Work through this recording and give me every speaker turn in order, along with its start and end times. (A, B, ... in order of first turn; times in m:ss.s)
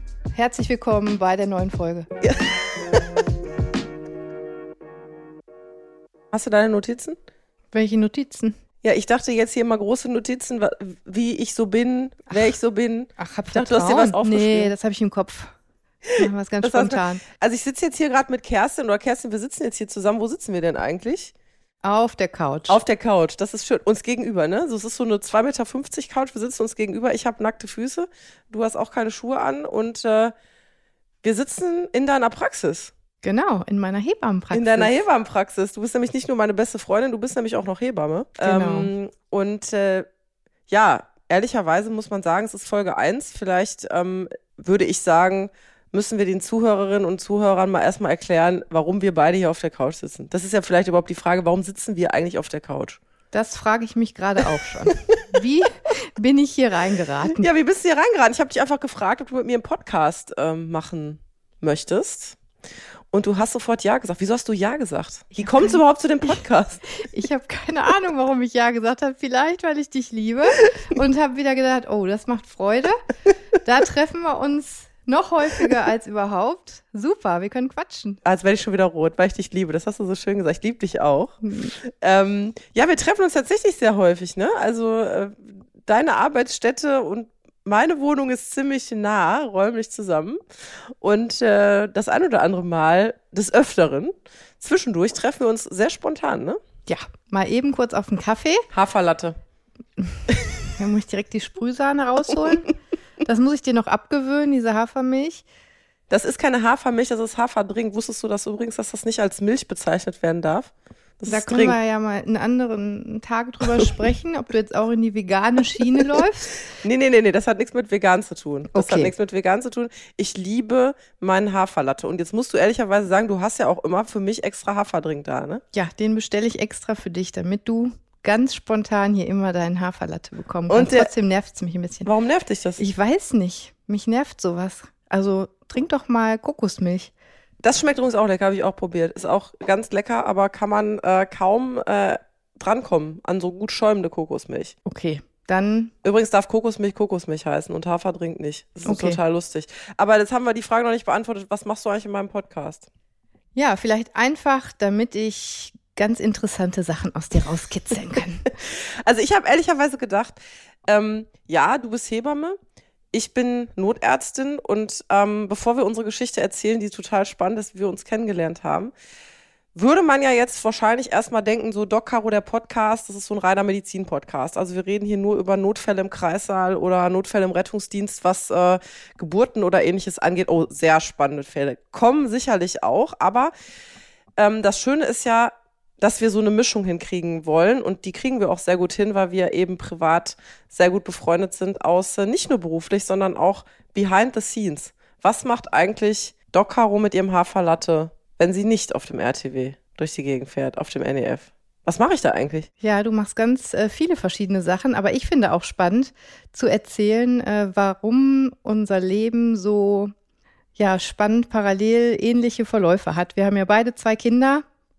0:00.3-0:02.1 A
0:02.2-0:03.2 B
0:06.3-0:07.2 B
0:07.7-0:08.6 A
0:08.8-0:14.7 B
0:13.2-0:15.5 A
0:16.0-0:21.3 B
0:16.2-0:17.2 A
0:21.8-0:22.8 A
0:22.7-0:30.3 B
0:31.2-0:32.9 B
0:33.2-0:35.0 A
0:34.5-0:40.1 B
0:38.4-0:38.9 A
0:40.7-0:53.0 B
0:53.3-0:57.5 A
0:54.9-0:55.2 B
0:57.3-1:02.4 B
1:03.1-1:06.8 B
1:05.3-1:06.4 A
1:06.9-1:13.0 A
1:13.6-1:18.2 A
1:18.2-1:30.4 B
1:21.4-1:21.7 A
1:31.0-1:36.6 B
1:36.9-1:38.6 A
1:38.7-1:39.4 B
1:40.3-1:40.6 B
1:40.8-1:42.7 A
1:43.2-1:45.4 A
1:46.1-1:51.8 B
1:51.3-1:56.5 A
1:53.8-1:54.0 B
1:56.8-2:05.6 B
1:58.7-1:59.1 A
2:05.7-2:12.1 A
2:10.7-2:11.1 B
2:12.0-2:12.8 B
2:12.8-2:17.1 A
2:17.6-2:24.7 B
2:24.8-2:25.9 A
2:26.0-2:32.9 B
2:28.8-2:29.2 A
2:33.6-2:38.5 A
2:38.6-2:42.5 B
2:43.1-2:48.9 B
2:49.7-3:03.5 B
3:04.4-3:22.7 B
3:22.8-3:30.1 A
3:30.8-3:34.6 A